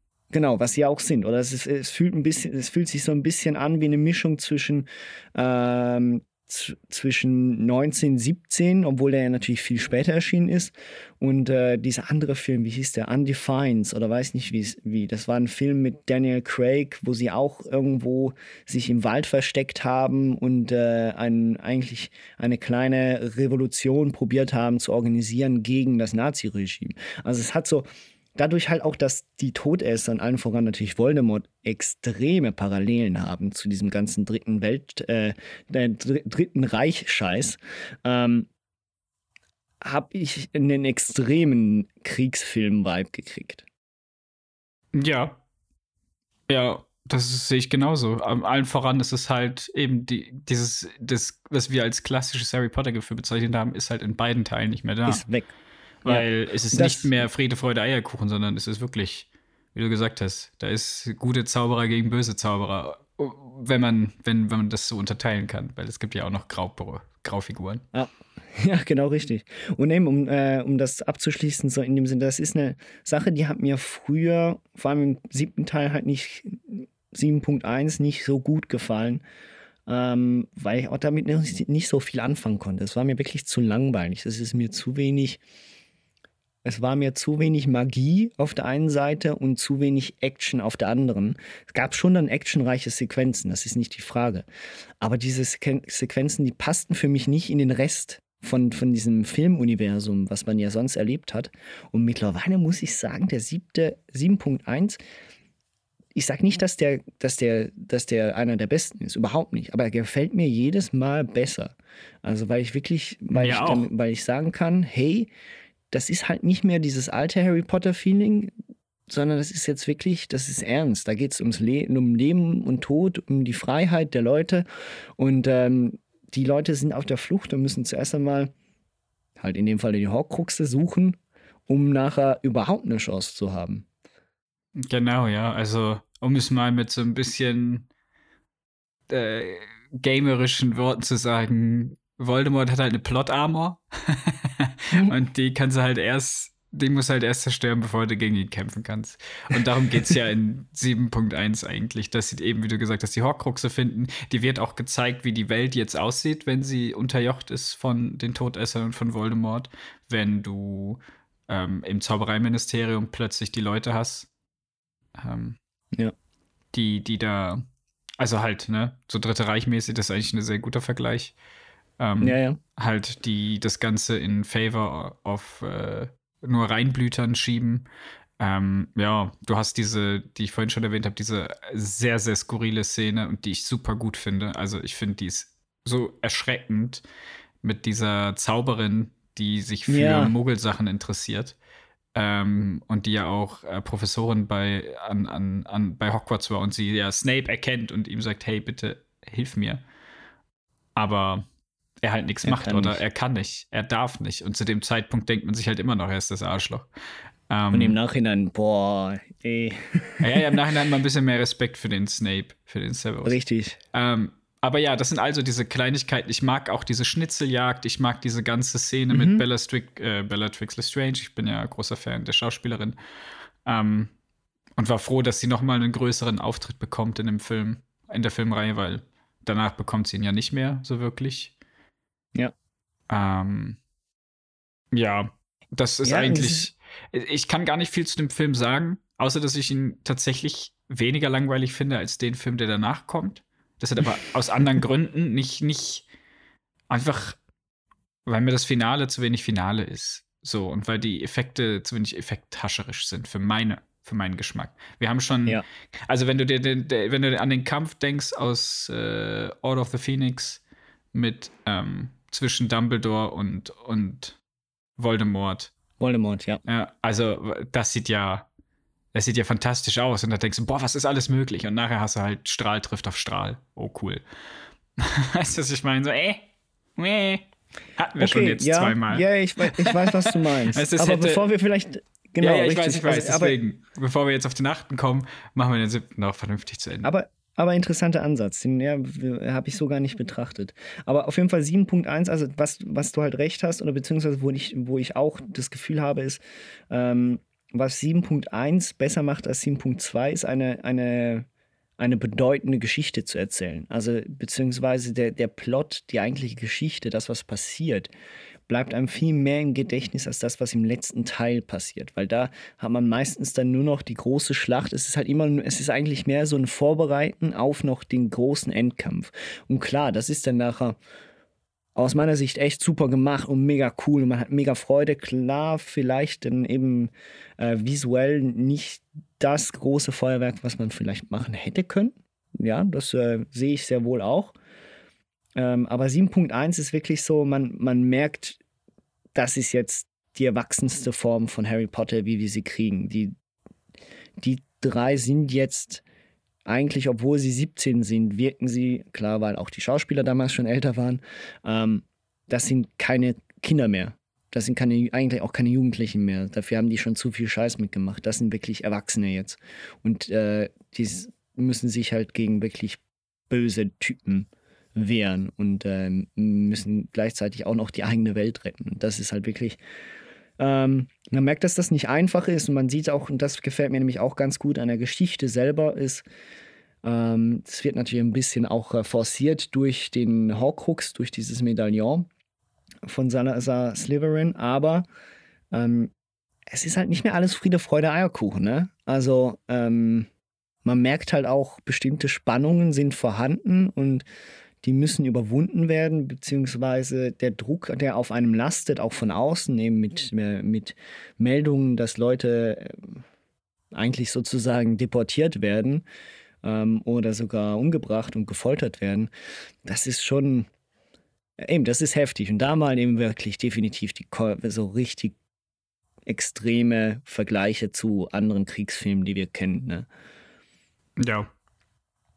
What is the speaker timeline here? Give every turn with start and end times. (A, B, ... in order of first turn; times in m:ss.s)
0:00.3-0:38.5 A
0:39.8-0:43.6 A
0:44.9-0:45.4 B
0:46.5-0:55.2 B
0:55.0-0:55.5 A
0:56.0-0:57.2 A
0:56.0-1:07.8 B
1:07.9-1:19.2 A
1:19.9-1:25.4 A
1:26.6-1:34.4 A
1:35.0-1:45.0 A
1:46.1-1:55.3 A
1:53.3-1:53.9 B
1:55.9-1:58.5 A
1:59.1-2:04.6 A
2:05.2-2:08.5 A
2:09.4-2:13.8 A
2:14.8-2:17.9 B
2:19.1-2:44.3 B
2:45.2-2:45.6 B
2:46.7-2:47.6 B
2:48.2-2:51.3 B
2:52.0-2:57.8 B
2:52.2-2:52.6 A
2:58.4-3:07.0 B
3:07.6-3:11.6 B
3:09.9-3:10.3 A
3:12.1-3:19.8 B
3:20.9-3:21.4 B
3:22.0-3:26.9 B
3:22.4-3:23.0 A
3:27.5-3:28.0 B
3:27.7-3:30.5 A
3:30.2-3:33.4 B
3:33.2-3:33.8 A
3:33.9-3:43.0 B
3:39.1-3:39.4 A
3:43.6-3:44.1 B
3:44.8-3:51.5 B
3:53.1-3:53.8 B
3:54.9-4:06.0 B
3:56.0-3:56.7 A
4:06.9-4:07.4 B
4:08.2-4:20.6 B
4:21.1-4:24.4 B
4:25.0-4:25.7 B
4:26.0-4:26.6 A
4:26.6-4:28.5 B
4:29.1-4:34.2 B
4:35.0-4:41.4 B
4:38.2-4:43.6 A
4:42.4-4:47.1 B
4:47.0-5:01.4 A
5:02.0-5:08.1 A
5:08.7-5:21.0 A
5:22.0-5:34.5 A
5:35.6-5:38.6 A
5:39.3-5:43.3 A
5:44.4-5:46.0 A
5:46.6-6:09.8 A
6:10.6-6:16.2 A
6:17.0-6:22.3 A
6:23.0-6:25.0 A
6:25.7-6:26.1 A
6:26.7-6:30.3 A
6:30.8-6:34.2 A
6:34.8-6:43.2 A
6:43.9-6:46.0 A
6:46.6-6:49.3 A
6:49.8-6:50.7 A
6:51.6-6:55.3 A
6:56.2-7:00.0 A
7:01.2-7:01.5 B